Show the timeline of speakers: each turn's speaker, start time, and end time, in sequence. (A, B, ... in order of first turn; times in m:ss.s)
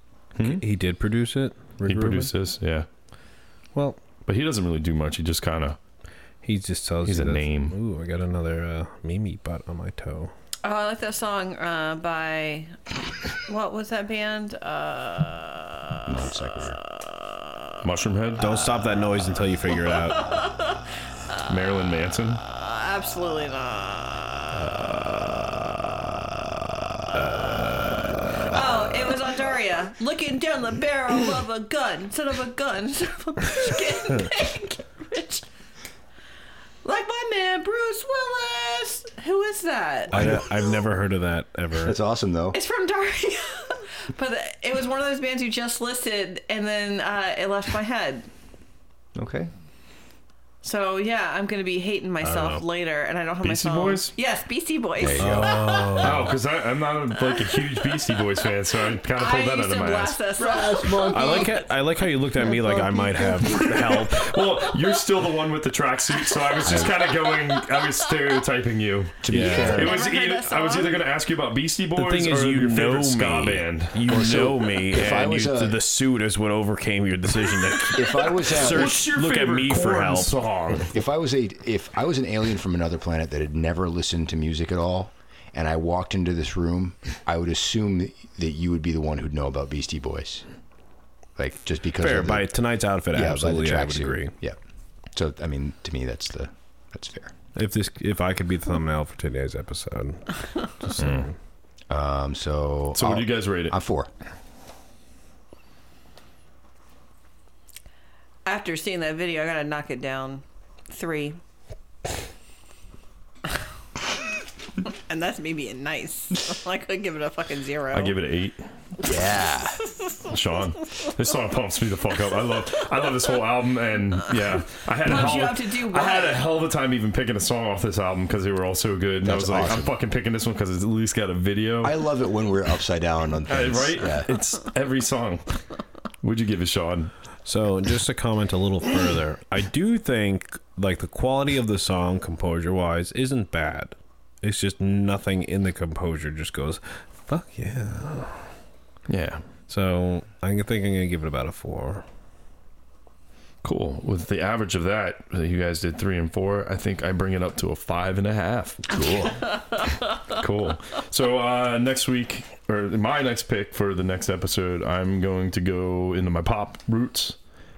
0:00.4-0:00.6 A
0:00.4-0:02.3 B
0:01.8-0:02.9 A
0:03.7-0:04.0 B
0:04.3-0:05.8 A
0:06.4-0:10.3 B
0:07.0-0:07.8 A
0:10.6-0:17.8 C
0:16.1-0:16.8 D
0:17.8-0:18.7 A
0:18.4-0:20.2 B
0:19.7-0:21.5 C
0:21.5-0:22.4 A
0:22.4-0:24.7 C
0:27.1-0:28.6 B
0:28.5-0:35.4 C
0:36.8-0:40.7 C
0:40.1-0:42.0 B
0:40.1-0:40.4 D
0:41.8-0:42.6 D
0:42.5-0:48.3 C
0:49.2-0:49.5 D
0:50.6-0:56.0 C
0:52.2-0:52.6 B
0:53.4-0:54.1 A
0:55.0-0:55.5 D
0:55.2-0:56.3 B
0:56.0-1:00.2 A
0:57.1-1:01.6 C
1:00.4-1:01.5 D
1:01.1-1:04.2 B
1:02.4-1:03.9 C
1:02.6-1:03.5 D
1:03.8-1:14.0 A
1:04.5-1:04.9 C
1:06.6-1:06.9 D
1:06.9-1:08.4 C
1:09.2-1:10.0 D
1:09.3-1:09.7 B
1:09.5-1:11.1 C
1:11.9-1:20.4 B
1:14.1-1:15.8 D
1:17.9-1:19.0 D
1:18.5-1:20.9 A
1:20.9-1:30.4 D
1:31.4-1:32.5 D
1:32.0-1:34.3 B
1:33.1-1:34.6 D
1:35.1-1:37.3 D
1:37.6-1:41.4 B
1:41.0-1:41.3 A
1:41.9-1:44.1 D
1:42.9-1:43.7 A
1:48.5-1:51.4 C
1:54.8-1:58.2 C
1:57.9-1:58.6 A
1:59.0-2:00.3 C
1:59.0-1:59.8 D
2:00.3-2:12.0 A
2:05.0-2:06.5 C
2:09.2-2:10.0 D
2:11.8-2:14.3 D
2:13.5-2:15.6 A
2:16.2-2:17.1 A
2:17.4-2:28.5 B
2:29.1-2:29.5 A
2:29.7-2:32.0 B
2:33.6-2:38.8 A
2:38.8-2:39.5 D
2:39.3-2:40.4 C
2:40.3-2:47.4 A